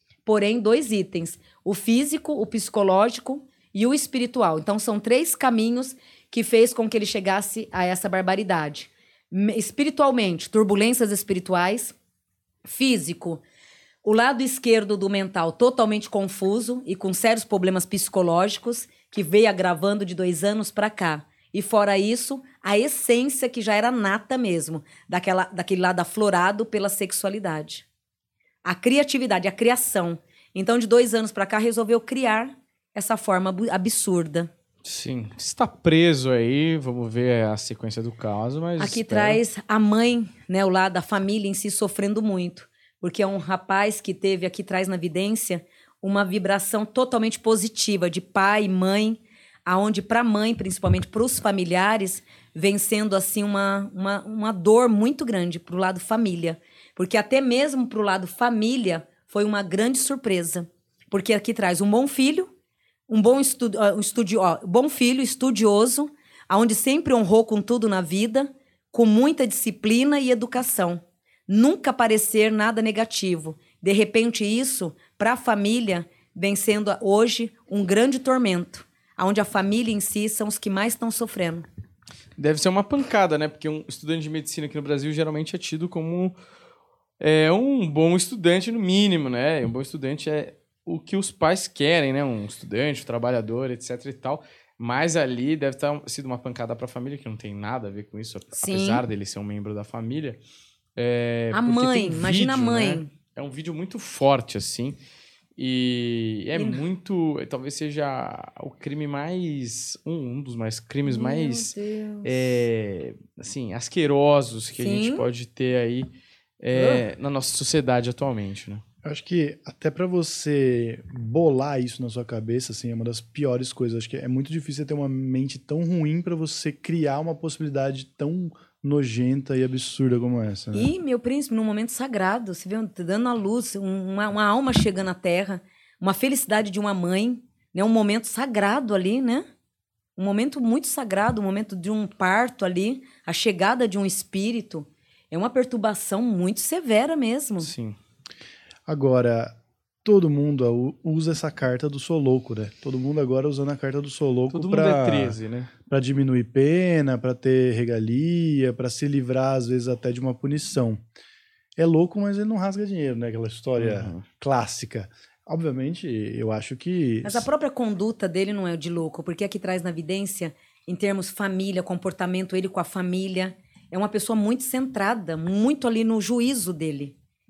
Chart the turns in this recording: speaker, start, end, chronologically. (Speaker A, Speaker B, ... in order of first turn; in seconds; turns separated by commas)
Speaker A: 0.2-11.9, Speaker A: 12.6-13.4, Speaker A: 14.0-27.8, Speaker A: 28.6-34.5, Speaker B: 34.8-39.4, Speaker A: 38.8-62.5, Speaker A: 63.1-81.7, Speaker B: 82.4-86.3, Speaker B: 87.2-100.4, Speaker A: 98.5-99.0, Speaker B: 101.0-105.0, Speaker A: 101.5-103.1, Speaker B: 105.6-111.7, Speaker A: 106.5-106.8, Speaker A: 111.0-112.6, Speaker B: 112.2-116.1, Speaker A: 114.8-115.2, Speaker B: 116.6-118.8, Speaker A: 116.7-117.0, Speaker C: 119.0-130.9, Speaker A: 130.7-139.4, Speaker A: 140.2-147.7, Speaker B: 147.6-148.0, Speaker C: 148.9-161.0, Speaker B: 154.5-155.7, Speaker C: 161.8-167.5, Speaker B: 163.8-164.2, Speaker A: 167.2-177.1